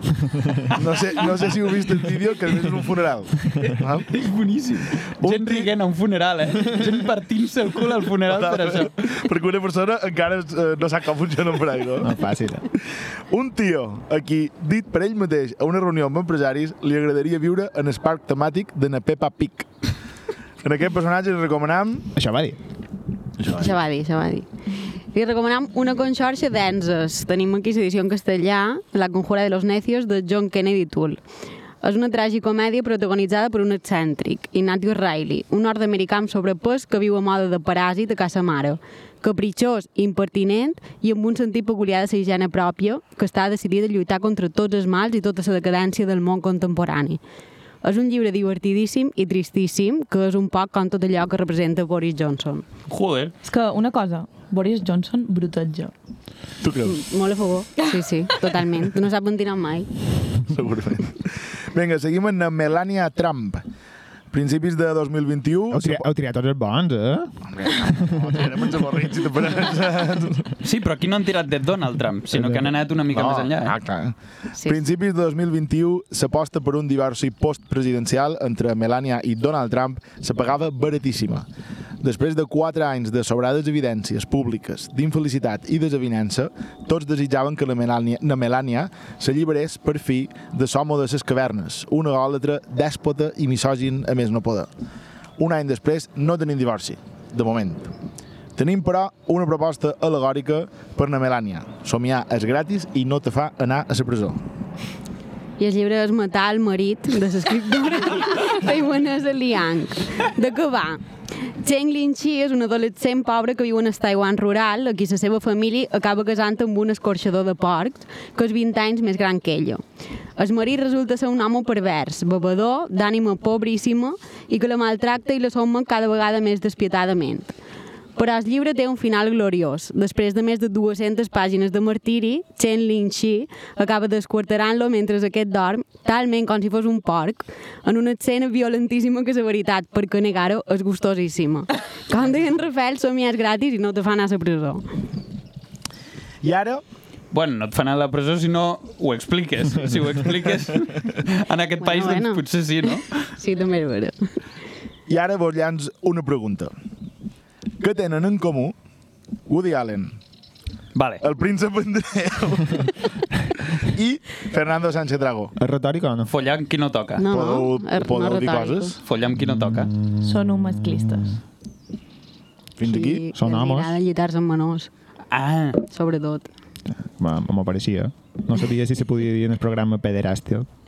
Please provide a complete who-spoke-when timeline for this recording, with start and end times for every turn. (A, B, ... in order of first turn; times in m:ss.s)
0:00.7-0:04.1 A
0:03.6-0:08.9 B
0:05.2-0:05.7 A
0:08.3-0:12.1 A
0:12.0-0:12.7 C
0:13.3-0:19.7 A
0:20.6-0:22.1 A
0:22.1-0:22.6 C
0:23.4-0:23.8 A
0:23.6-0:24.5 D
0:25.1-0:31.2 D
0:31.8-0:47.2 D
0:47.8-0:52.6 D
0:52.9-0:53.3 B
0:53.4-0:55.9 E
0:56.6-0:57.0 A
0:56.8-0:59.9 D
1:00.5-1:03.6 A
1:04.3-1:06.0 A
1:05.7-1:08.4 C
1:07.5-1:10.5 A
1:10.6-1:13.7 B
1:12.3-1:12.7 C
1:13.1-1:21.5 A
1:22.0-1:34.7 A
1:35.4-1:37.9 A
1:38.6-1:44.4 A
1:45.6-1:51.0 D
1:51.6-1:59.8 D
2:00.4-2:07.5 D
2:08.2-2:24.8 D
2:26.4-2:26.8 A
2:27.3-2:33.0 B
2:31.8-2:34.2 D
2:35.1-2:36.7 A
2:37.8-2:38.7 A
2:39.5-2:40.1 A
2:40.9-2:41.2 B
2:41.2-2:42.9 A
2:43.8-2:45.5 A
2:45.6-2:46.3 C
2:46.3-2:47.2 B
2:47.2-2:48.9 D
2:47.3-2:49.0 A
2:49.0-2:49.9 B
2:49.3-2:51.4 C
2:50.2-2:51.3 E
2:52.8-2:53.3 A
2:52.8-2:54.9 D
2:53.3-2:54.0 C
2:55.3-2:55.8 B
2:55.9-2:56.5 D
2:57.0-3:00.7 C